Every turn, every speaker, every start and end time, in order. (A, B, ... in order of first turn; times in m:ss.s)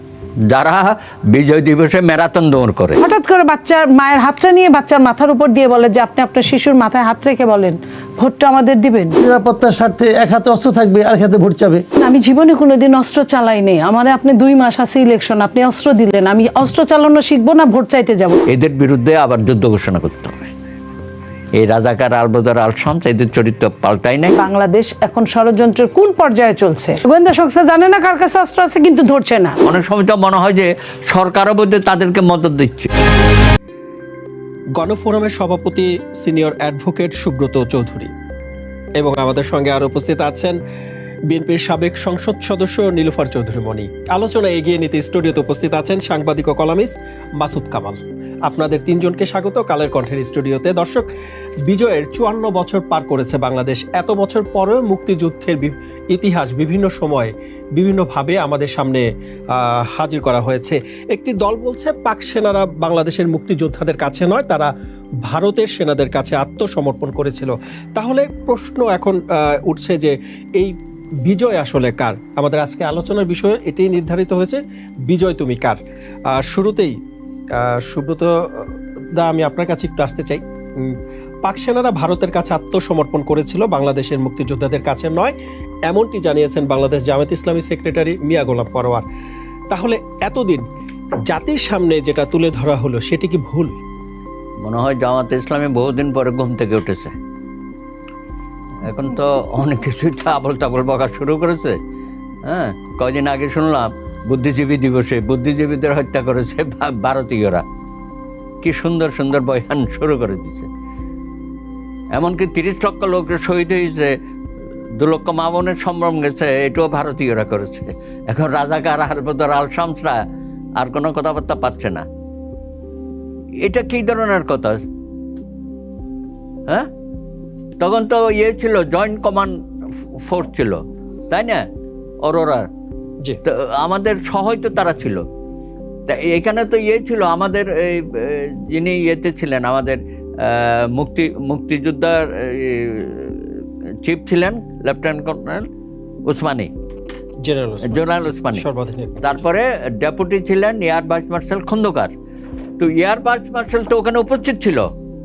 0:00.5-0:03.0 A
0:03.0-0:09.1 B
0:09.2-0:11.8 C
0:12.0-0:18.4 B
0:18.5-0:20.5 A
0:21.6-0:24.3 A
0:24.4-0:29.6 B
0:29.6-0:32.9 A
0:34.8-0:38.1 D
0:39.0-0:40.6 D
0:41.3-0:51.1 D
0:51.7-1:04.7 D
1:05.2-1:16.9 D
1:17.5-1:25.4 D
1:25.9-1:29.0 D
1:29.7-1:30.6 D
1:31.3-1:33.8 D
1:34.6-1:37.1 A
1:38.9-1:41.8 A
1:42.4-1:47.6 A
1:48.6-1:50.7 A
1:52.1-1:54.1 A
1:55.0-2:00.2 A
2:00.8-2:02.0 A
2:03.6-2:04.8 A
2:07.8-2:09.5 A
2:10.2-2:11.6 A
2:12.2-2:12.7 A
2:13.5-2:15.2 A
2:16.1-2:25.7 A
2:26.3-2:26.7 A
2:27.4-2:29.4 D
2:27.9-2:28.6 A
2:29.2-2:32.1 A
2:32.8-2:34.8 A